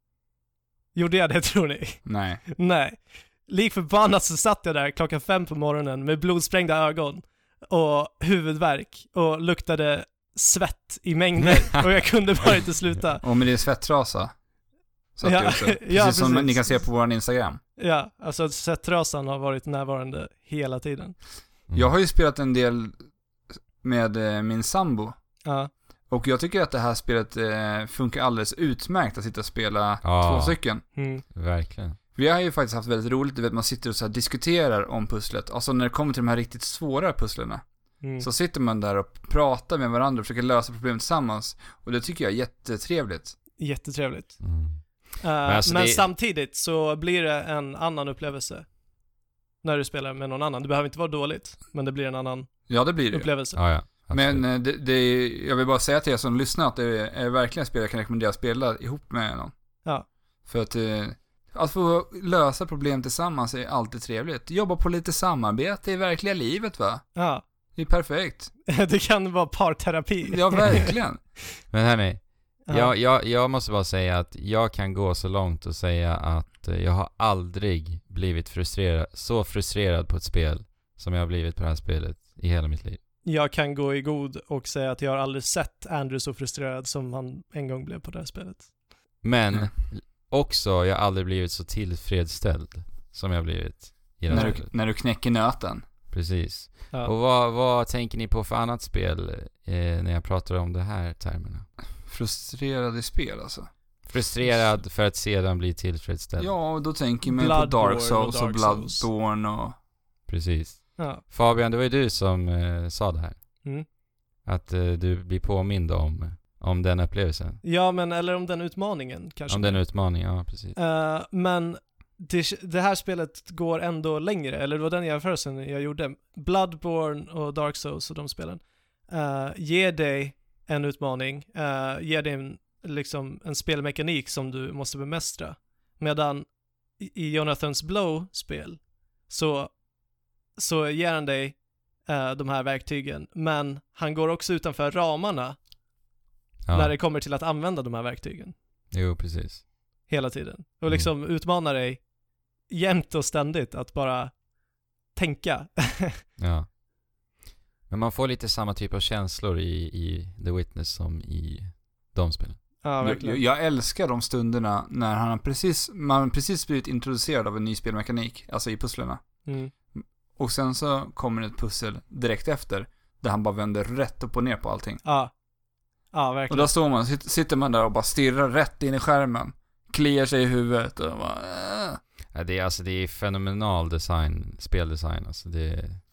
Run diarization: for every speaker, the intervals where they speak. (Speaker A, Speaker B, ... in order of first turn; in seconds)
Speaker A: 0.9-13.2, 15.2-16.8, 17.8-21.2, 25.4-25.7, 31.0-31.2, 38.0-38.3, 43.6-44.6, 45.2-48.7, 49.6-53.6, 67.2-67.4, 68.7-71.0, 72.7-72.9, 83.2-88.7, 94.3-94.6, 107.3-109.1, 111.0-111.2, 117.6-119.9, 120.8-139.8, 140.6-145.6, 146.7-148.5, 150.1-152.1, 152.7-154.4, 155.1-156.2, 162.8-163.4, 169.5-169.7, 175.1-175.3, 176.1-176.7
Speaker B: 2.0-2.4, 13.2-14.3, 15.2-17.6, 21.7-23.0, 23.8-25.1, 26.1-30.9, 32.1-37.7, 38.2-43.4, 52.7-53.3, 54.1-59.5, 60.5-67.0, 67.7-68.5, 70.3-71.2, 94.3-95.8, 102.0-103.7, 106.4-109.8, 163.0-169.2, 169.9-175.0, 176.5-182.0
Speaker C: 30.0-32.0, 44.4-46.1, 53.5-54.5, 71.7-83.0, 89.2-94.7, 96.1-101.7, 104.1-106.5, 110.3-113.7, 114.4-117.6, 119.5-120.8, 146.7-146.9, 148.9-149.6, 156.4-156.7, 157.9-162.6, 182.3-186.0